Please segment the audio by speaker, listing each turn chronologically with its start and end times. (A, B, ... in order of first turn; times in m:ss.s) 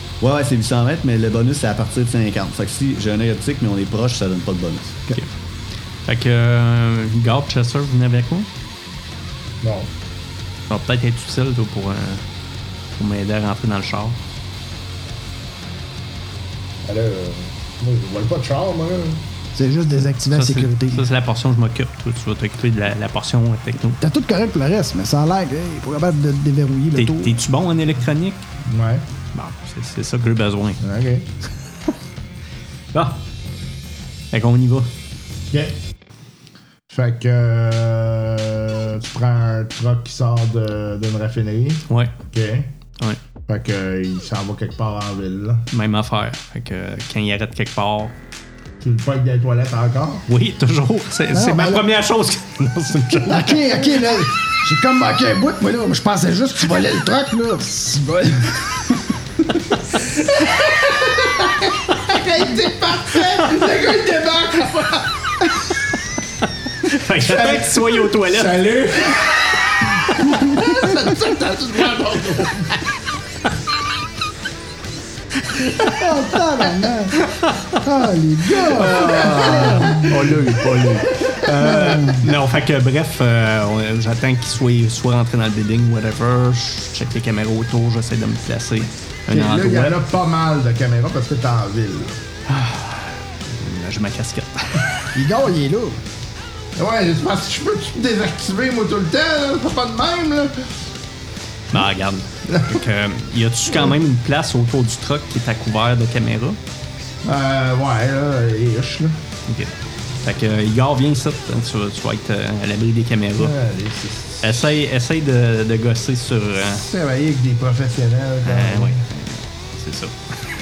0:00.2-0:05.0 A
0:06.0-0:08.5 B
0:09.6-0:09.9 C
0:10.7-0:12.2 B
0:12.9-0:14.2 B
0:16.8-0:19.2 C
0:19.5-0:21.1 D
0:20.3-0:24.0 B
0:24.0-0:27.4 D
0:26.9-0:28.4 B
0:28.6-0:29.0 C
0:29.3-0:30.8 B
0:30.8-0:31.2 C
0:32.9-0:33.2 B
0:34.3-0:34.9 B
0:35.5-0:35.8 C
0:36.9-0:42.7 C
0:43.5-0:45.6 C
0:45.7-0:48.1 B
0:48.8-0:50.2 C
0:50.3-0:53.9 B
0:51.3-0:51.8 D
0:53.2-0:59.0 D
1:00.3-1:05.1 C
1:06.8-1:08.7 B
1:07.2-1:12.8 C
1:15.8-1:20.2 D
1:17.2-1:17.8 B
1:18.5-1:30.0 B
1:18.8-1:20.2 C
1:21.5-1:22.3 D
1:29.3-1:32.2 C
1:32.5-1:35.1 B
1:35.1-1:36.0 D
1:36.8-1:40.7 C
1:41.7-1:46.6 B
1:42.5-1:42.8 C
1:47.2-1:49.2 C
1:49.5-1:49.7 B
1:50.2-1:53.5 B
1:53.4-1:54.5 C
1:54.4-1:56.8 B
1:56.7-1:59.0 C
1:58.4-2:00.2 B